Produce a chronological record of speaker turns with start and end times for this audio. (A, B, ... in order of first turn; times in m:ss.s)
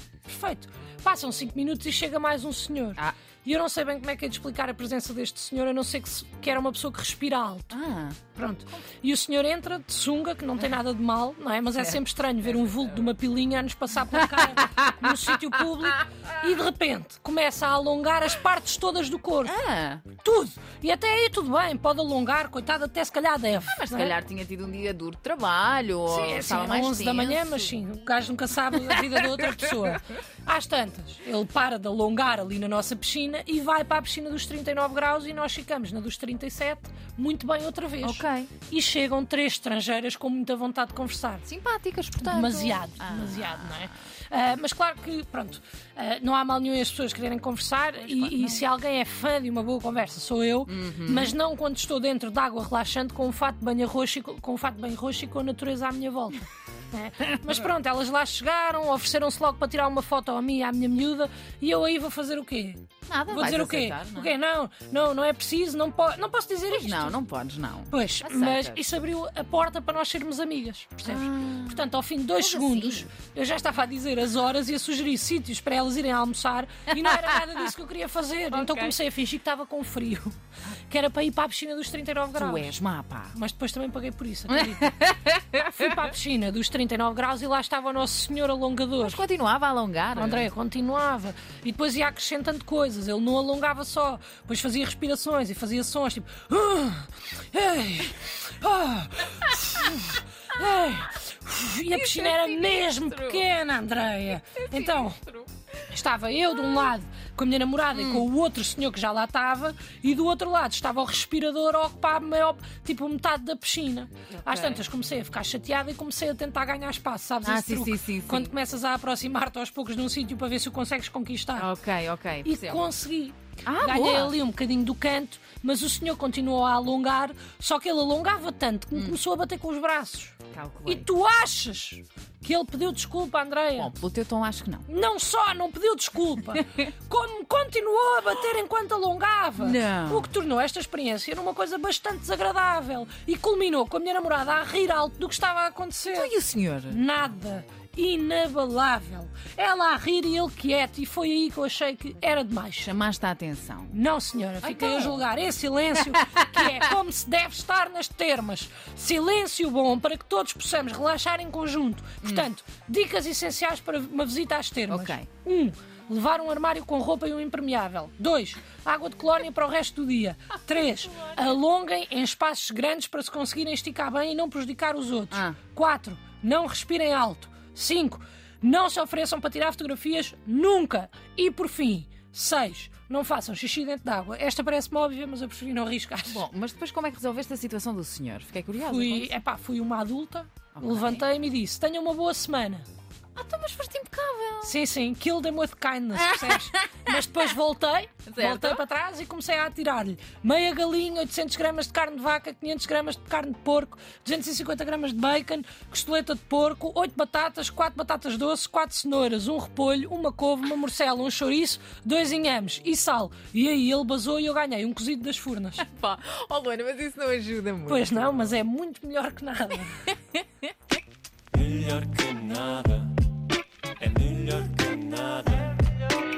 0:00.2-0:07.7 A
0:07.7-0:08.2 B
0:08.3-0:19.6 A
0:14.1-0:15.6 B
0:19.4-0:20.0 B
0:20.2-0:24.2 A
0:23.6-0:27.7 B
0:26.0-0:41.4 A
0:28.9-0:29.8 B
0:38.0-0:38.5 B
0:41.4-0:43.9 B
0:42.2-1:07.2 A
0:48.0-0:48.6 B
0:50.7-0:51.3 B
1:03.1-1:04.3 B
1:06.7-1:08.8 B
1:07.9-1:20.4 A
1:11.0-1:13.1 B
1:16.9-1:17.7 B
1:18.5-1:19.0 B
1:20.9-1:22.7 A
1:22.4-1:23.3 B
1:23.3-1:25.0 A
1:24.5-1:26.1 B
1:25.5-1:29.2 A
1:29.0-1:30.5 B
1:30.2-1:45.2 A
1:41.9-1:43.4 B
1:44.5-1:45.6 B
1:45.9-2:01.7 A
1:47.9-1:48.2 B
1:54.4-1:54.8 B
1:57.4-1:58.5 B
2:01.6-2:02.8 B
2:02.4-2:13.9 A
2:03.6-2:04.4 B
2:10.5-2:11.1 B
2:13.8-2:14.8 B
2:14.9-2:26.3 A
2:19.6-2:20.3 B
2:26.1-2:27.0 B
2:26.9-2:32.9 A
2:32.8-2:34.0 B
2:33.9-3:06.4 A
2:34.6-2:35.2 B
2:36.0-2:36.9 B
2:42.2-2:42.5 B
2:44.9-2:45.3 B
2:51.1-2:51.4 B
2:55.3-2:55.6 B
3:06.3-3:09.3 B
3:08.8-3:12.8 A
3:10.8-3:11.2 B
3:13.4-3:14.7 B
3:14.6-3:35.8 A
3:16.1-3:17.4 B
3:18.3-3:18.8 B
3:35.8-3:38.3 B
3:37.9-3:40.1 A
3:41.5-3:43.1 C
3:44.0-3:45.6 C